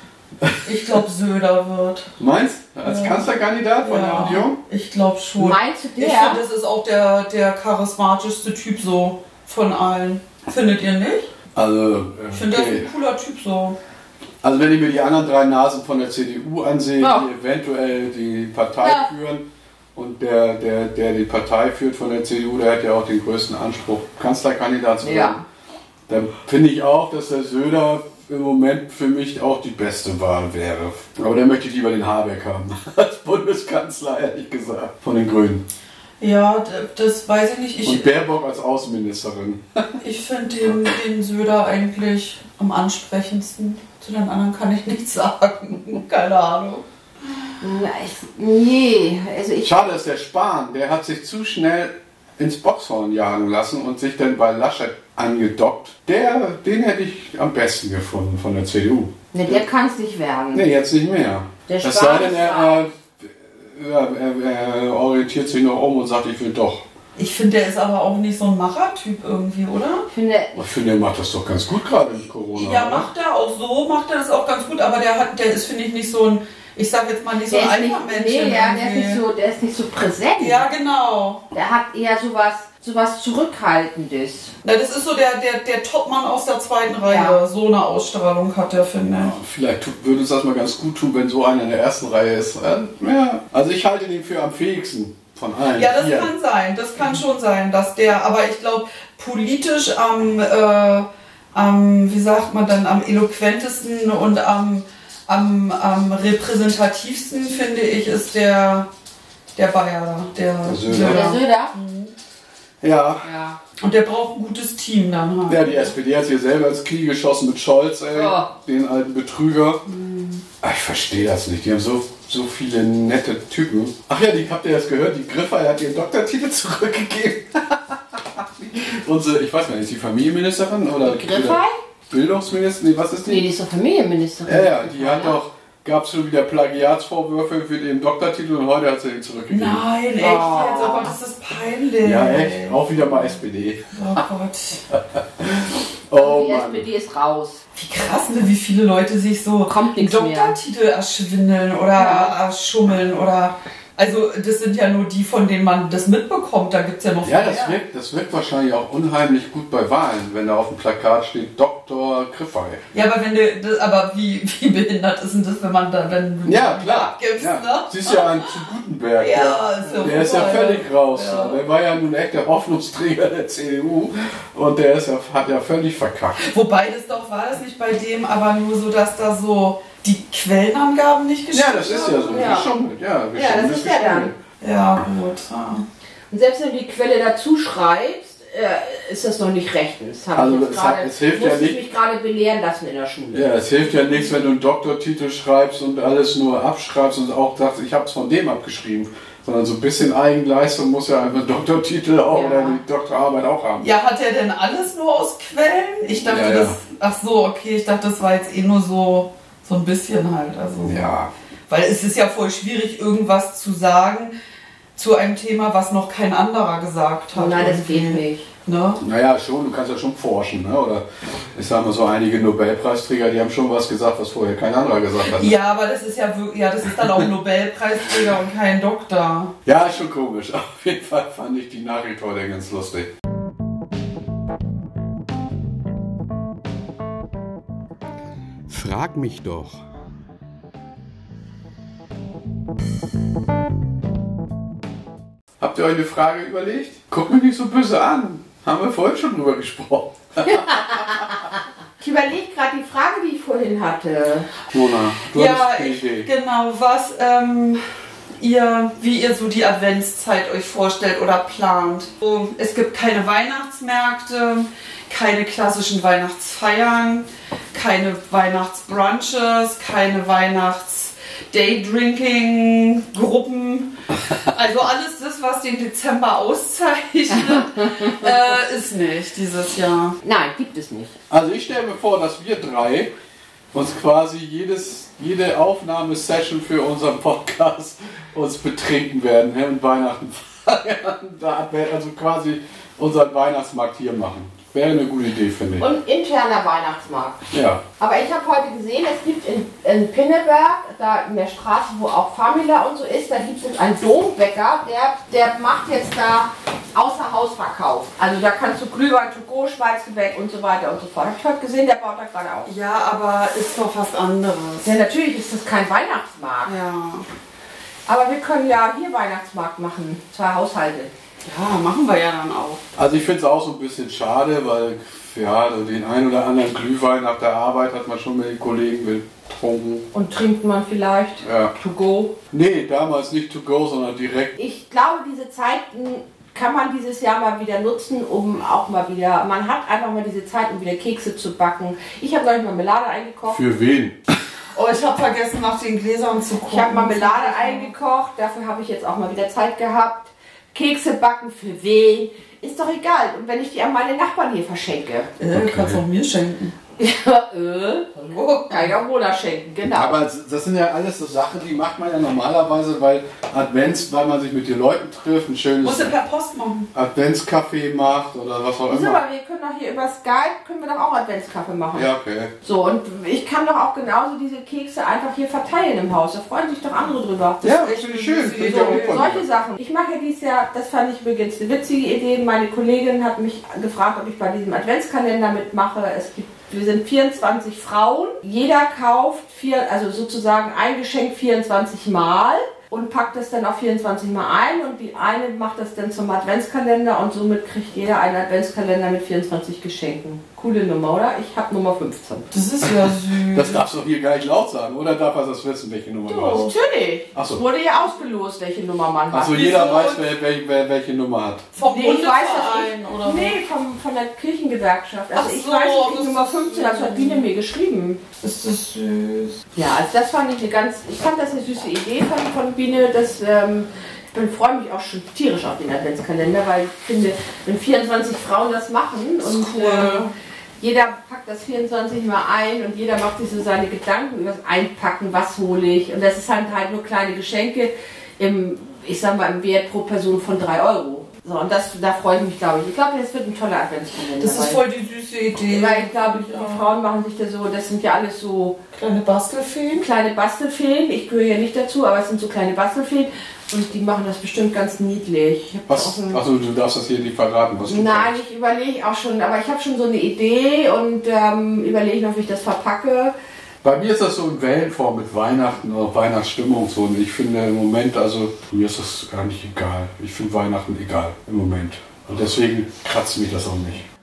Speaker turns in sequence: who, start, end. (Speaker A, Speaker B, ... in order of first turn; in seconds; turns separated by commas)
Speaker A: 0.4-1.0, Speaker B: 0.7-2.1, Speaker A: 2.2-4.6, Speaker B: 2.8-3.3, Speaker B: 3.8-11.3, Speaker C: 5.4-6.4, Speaker A: 11.6-12.9, Speaker B: 12.3-13.8, Speaker A: 14.4-25.4, Speaker C: 17.0-17.3, Speaker C: 18.8-19.1, Speaker C: 25.0-25.4, Speaker A: 26.1-35.6, Speaker B: 36.2-38.1, Speaker A: 37.8-40.0, Speaker B: 40.0-46.9, Speaker C: 47.6-49.7, Speaker A: 49.6-59.7, Speaker C: 59.3-60.7, Speaker A: 60.5-66.8, Speaker C: 61.7-62.9, Speaker B: 67.2-70.1, Speaker C: 70.1-70.6, Speaker A: 70.5-73.1, Speaker B: 72.5-79.2, Speaker C: 77.5-80.7, Speaker B: 80.4-81.4, Speaker C: 81.5-84.5, Speaker B: 84.6-89.4, Speaker C: 87.1-87.4, Speaker A: 89.2-96.3, Speaker B: 95.8-108.9, Speaker B: 109.5-112.1, Speaker A: 110.7-111.4, Speaker C: 110.9-111.8, Speaker A: 112.8-113.3, Speaker C: 113.2-113.6, Speaker B: 113.8-115.8, Speaker A: 115.5-119.8, Speaker C: 118.1-118.5, Speaker B: 119.9-120.4, Speaker A: 120.6-133.4, Speaker C: 131.0-131.8, Speaker C: 133.3-135.4, Speaker A: 134.4-139.9, Speaker B: 139.5-143.3, Speaker C: 140.2-141.1, Speaker A: 142.0-143.9, Speaker B: 143.9-144.8, Speaker A: 144.9-146.9, Speaker C: 146.1-147.6, Speaker B: 147.8-157.8, Speaker C: 149.7-150.6, Speaker C: 152.0-152.3, Speaker A: 157.2-162.8, Speaker B: 162.9-168.5, Speaker A: 166.5-176.5, Speaker B: 169.2-171.6, Speaker C: 169.8-170.1, Speaker B: 176.4-182.7, Speaker A: 181.5-184.4, Speaker C: 182.3-182.7, Speaker C: 183.3-184.3, Speaker B: 184.6-185.9, Speaker C: 186.3-194.2, Speaker A: 190.3-191.8, Speaker A: 193.3-203.9, Speaker C: 202.3-202.8, Speaker B: 203.8-211.1, Speaker A: 206.3-206.8, Speaker A: 210.8-211.3, Speaker B: 211.7-214.3, Speaker B: 215.0-219.0, Speaker C: 217.3-218.5, Speaker A: 219.0-225.6, Speaker B: 225.3-229.6, Speaker A: 229.7-233.1, Speaker A: 238.7-239.8, Speaker A: 245.6-251.0, Speaker C: 250.5-251.2, Speaker C: 252.0-254.5, Speaker A: 254.7-256.3, Speaker B: 255.3-280.2, Speaker C: 280.2-281.2, Speaker A: 281.3-283.1, Speaker A: 283.7-295.9, Speaker C: 295.8-297.4, Speaker A: 297.5-297.8, Speaker C: 298.0-312.7, Speaker B: 312.6-314.9, Speaker C: 314.8-316.7, Speaker B: 316.6-317.3, Speaker C: 318.1-321.1, Speaker B: 321.4-322.8, Speaker A: 323.0-330.1, Speaker C: 330.1-332.4, Speaker A: 331.4-331.7, Speaker A: 332.5-334.6, Speaker C: 334.6-343.6, Speaker A: 343.5-344.2, Speaker B: 344.7-347.9, Speaker C: 346.7-355.3, Speaker B: 355.4-356.7, Speaker A: 355.5-356.0, Speaker C: 357.0-360.2, Speaker B: 358.2-359.0, Speaker A: 359.9-366.1, Speaker B: 365.8-366.9, Speaker A: 366.9-369.2, Speaker C: 368.9-372.1, Speaker A: 371.9-372.5, Speaker C: 372.6-377.7, Speaker B: 377.6-379.2, Speaker A: 377.6-379.4, Speaker C: 378.5-402.5, Speaker B: 402.5-403.8, Speaker A: 402.8-406.7, Speaker C: 406.3-409.9, Speaker A: 407.3-407.6, Speaker A: 409.3-411.7, Speaker B: 409.5-410.2, Speaker B: 411.8-413.6, Speaker C: 411.8-418.2, Speaker B: 415.3-417.5, Speaker B: 418.4-419.6, Speaker C: 419.8-430.3, Speaker B: 429.4-430.3, Speaker C: 430.8-444.8, Speaker B: 444.4-446.9, Speaker C: 445.7-448.8, Speaker B: 448.9-450.1, Speaker C: 449.9-456.4, Speaker A: 455.9-458.4, Speaker C: 457.9-463.3, Speaker A: 463.8-474.1